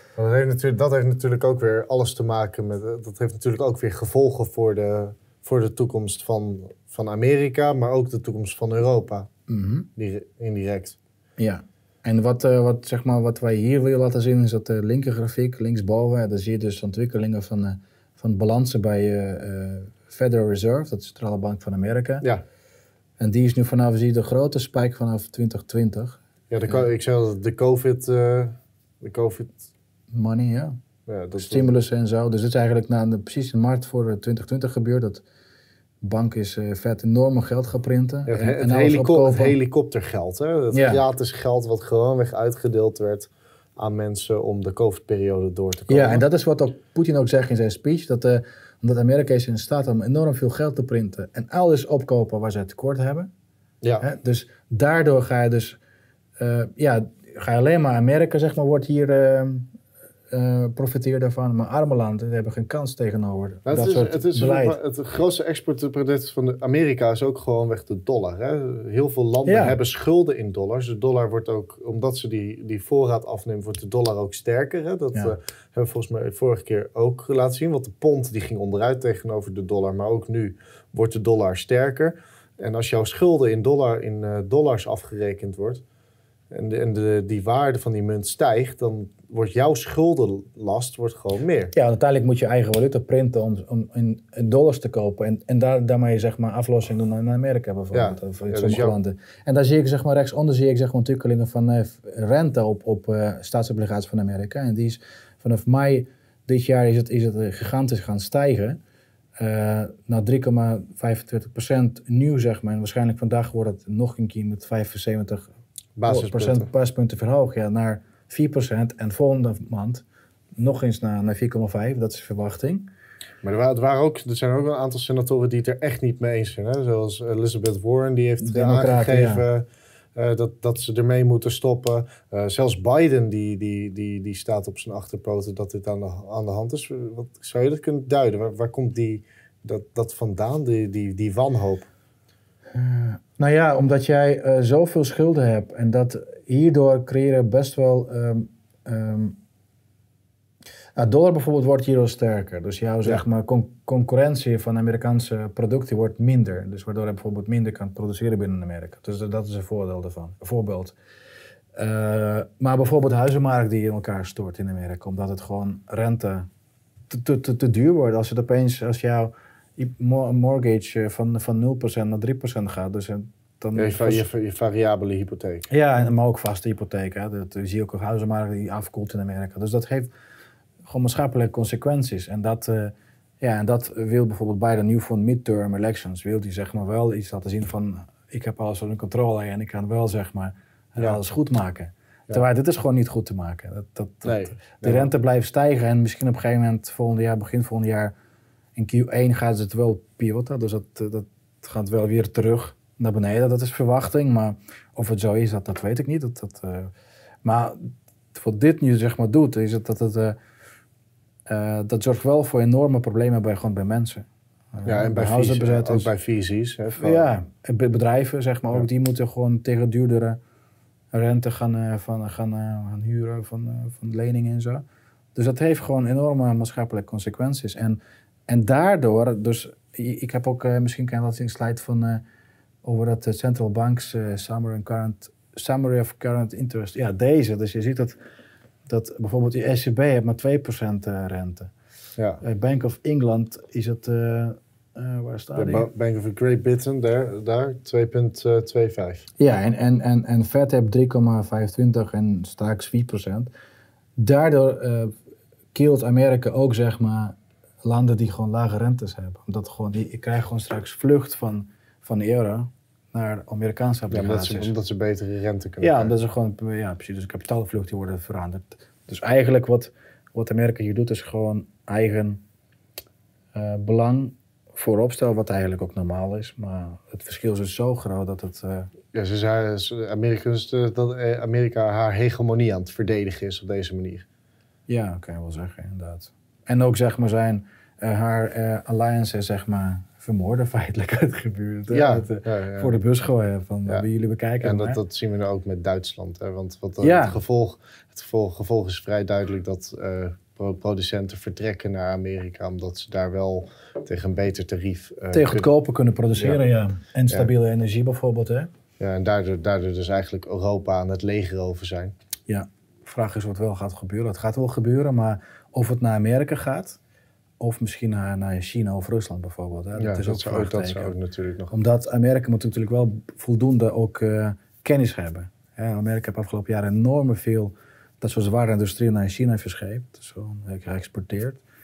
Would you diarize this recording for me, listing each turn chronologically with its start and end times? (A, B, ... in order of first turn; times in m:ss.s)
0:00.2-0:09.3 A
0:09.5-0:09.9 B
0:10.0-0:11.0 A
0:11.4-0:22.2 B
0:23.2-0:26.8 B
0:26.5-0:29.6 A
0:30.1-0:30.8 B
0:31.1-0:31.7 A
0:31.4-0:35.2 B
0:36.0-0:39.6 B
0:38.3-0:46.2 A
0:40.7-0:41.0 B
0:45.9-0:53.3 B
0:53.8-0:54.1 A
0:54.0-0:55.8 B
0:56.4-0:59.7 B
1:00.3-1:04.8 B
1:03.7-1:25.8 A
1:09.5-1:09.8 B
1:26.5-1:31.7 A
1:31.7-1:48.8 B
1:37.9-1:39.0 A
1:49.4-1:55.5 B
1:56.0-1:56.7 A
1:56.1-2:00.0 B
2:00.6-2:02.9 B
2:03.4-2:21.9 A
2:08.4-2:09.4 B
2:22.7-2:29.4 B
2:31.0-2:41.0 B
2:41.8-2:46.5 B
2:47.1-2:54.3 B
2:53.8-2:55.7 A
2:55.7-3:00.1 B
3:00.8-3:18.2 B
3:14.2-3:15.1 A
3:18.8-3:26.9 B
3:27.4-3:30.4 B
3:31.5-3:36.1 B
3:34.8-3:37.3 A
3:37.0-3:40.4 B
3:41.1-3:44.8 B
3:45.4-3:52.2 B
3:52.8-3:58.2 B
3:58.9-4:01.7 B
4:02.2-4:02.4 A
4:02.4-4:05.9 B
4:05.6-4:09.3 A
4:09.4-4:13.5 B
4:14.2-4:15.1 B
4:15.7-4:24.7 B
4:24.1-4:26.2 A
4:25.8-4:32.4 B
4:33.5-4:38.9 B
4:39.1-4:44.3 A
4:44.9-4:55.0 B
4:51.9-4:52.9 A
4:54.6-5:05.7 A
4:57.0-4:57.4 B
5:05.3-5:08.7 B
5:06.4-5:06.6 A
5:09.0-5:12.1 A
5:12.5-5:17.0 B
5:17.6-5:21.2 B
5:20.0-5:21.8 A
5:21.7-5:31.6 B